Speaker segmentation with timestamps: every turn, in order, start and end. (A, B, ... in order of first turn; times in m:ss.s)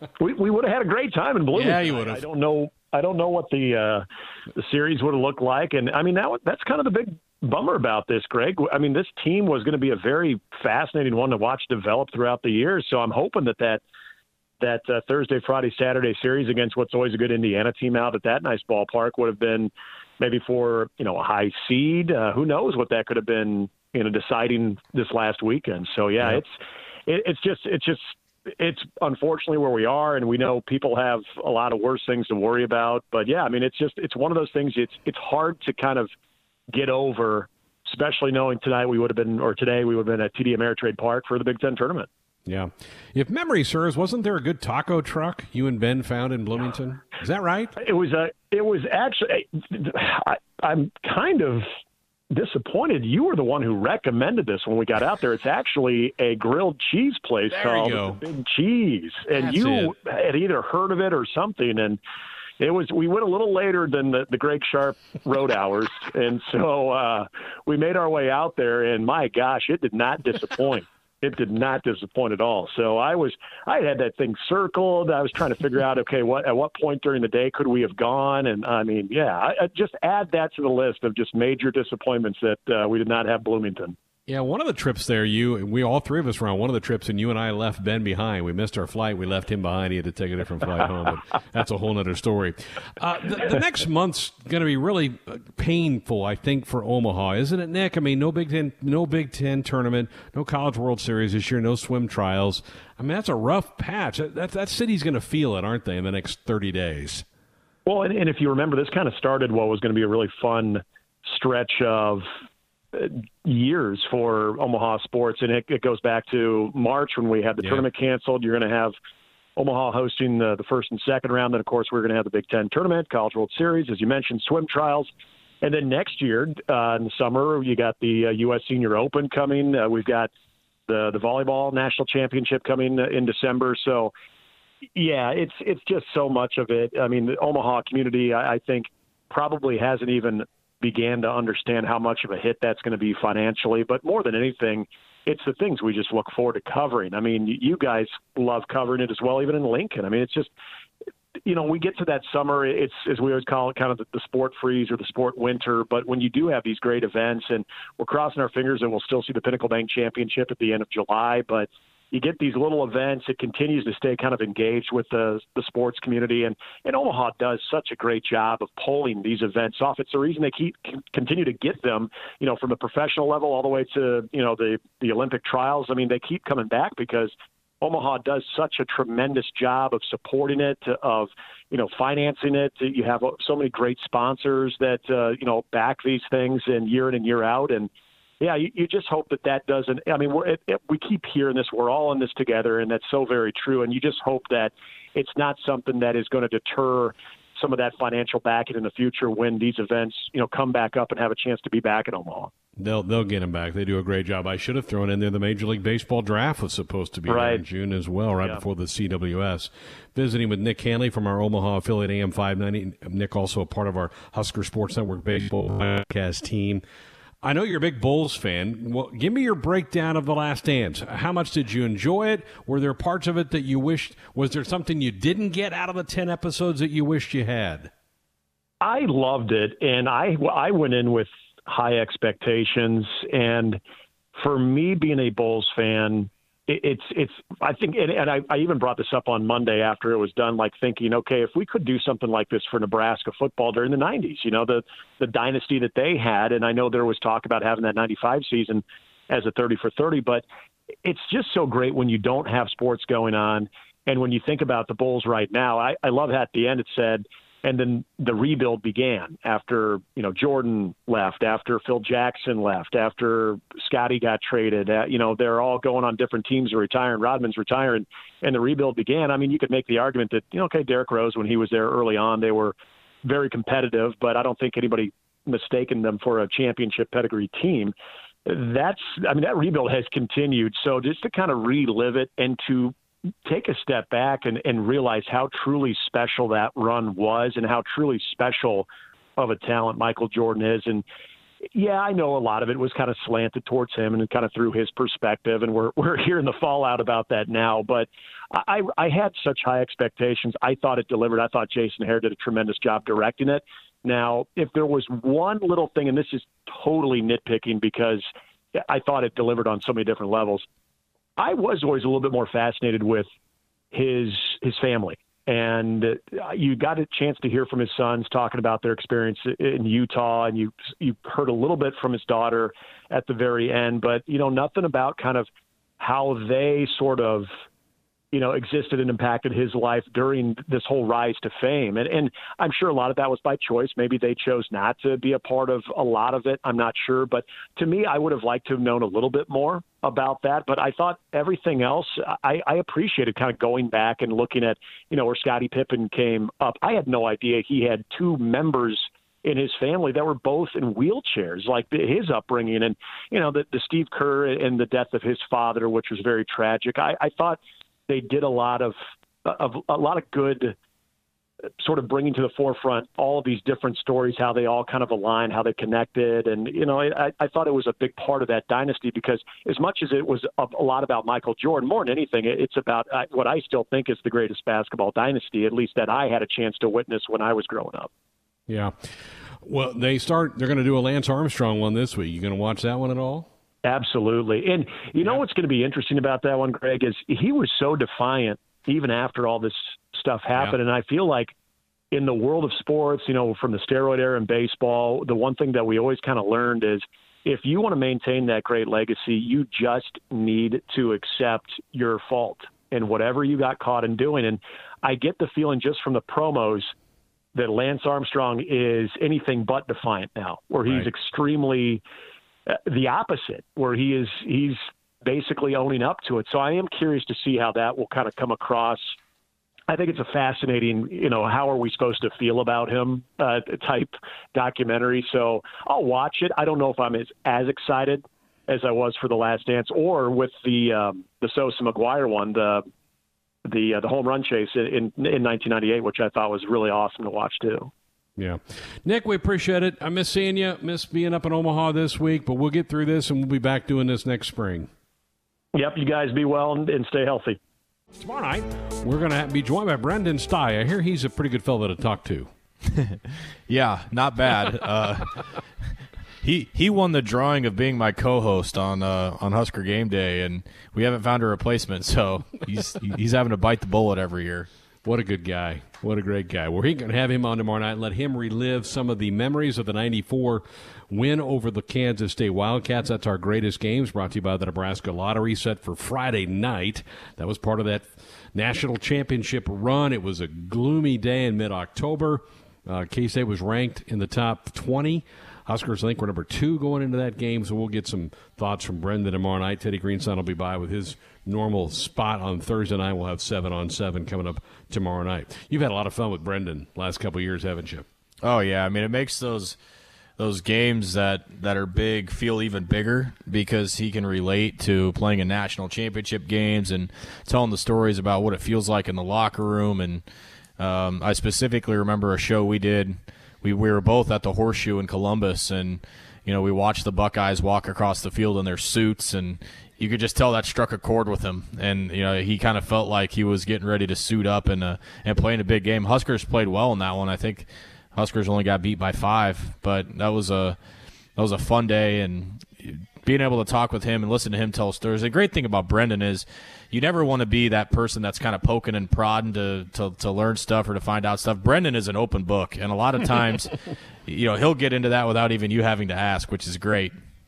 0:00.2-0:04.0 A
0:01.5-0:02.2 B
0:04.6-0:13.8 A
0:14.6-0:26.6 A
0:27.1-0:36.1 A
0:36.7-0:42.1 A
0:42.4-0:47.7 B
0:47.8-0:51.7 A
0:52.3-1:02.0 A
0:57.5-0:58.2 B
0:59.3-0:59.9 B
1:02.6-1:24.0 A
1:24.3-1:47.2 B
1:47.8-1:52.3 A
1:52.9-1:58.9 A
1:59.6-2:05.1 A
2:05.6-2:10.3 A
2:10.9-2:14.1 A
2:15.0-2:30.5 A
2:31.4-3:22.5 A
3:22.8-3:36.8 B
3:27.3-3:27.6 A
3:37.4-3:47.9 B
3:48.8-3:53.8 A
3:54.3-4:10.4 A
4:11.0-4:37.9 A
4:38.4-4:42.9 A
4:43.4-4:51.0 A
4:51.7-5:08.2 A
5:08.9-5:10.6 A
5:11.4-5:13.3 A
5:13.9-5:25.5 A
5:26.0-5:27.5 A
5:28.3-6:00.7 A
6:01.8-6:18.1 A
6:18.7-6:23.5 B
6:23.8-6:31.5 A
6:32.1-6:46.9 A
6:47.5-6:52.0 A
6:52.7-6:59.1 A
6:59.9-7:12.8 A
7:13.6-7:17.9 A
7:18.4-7:24.9 B
7:25.7-7:27.6 A
7:28.1-7:32.5 B
7:33.7-7:35.6 C
7:36.4-7:44.7 C
7:45.0-8:18.0 B
8:18.4-8:19.8 C
8:20.4-8:30.2 C
8:30.8-8:50.8 C
8:51.4-9:07.1 C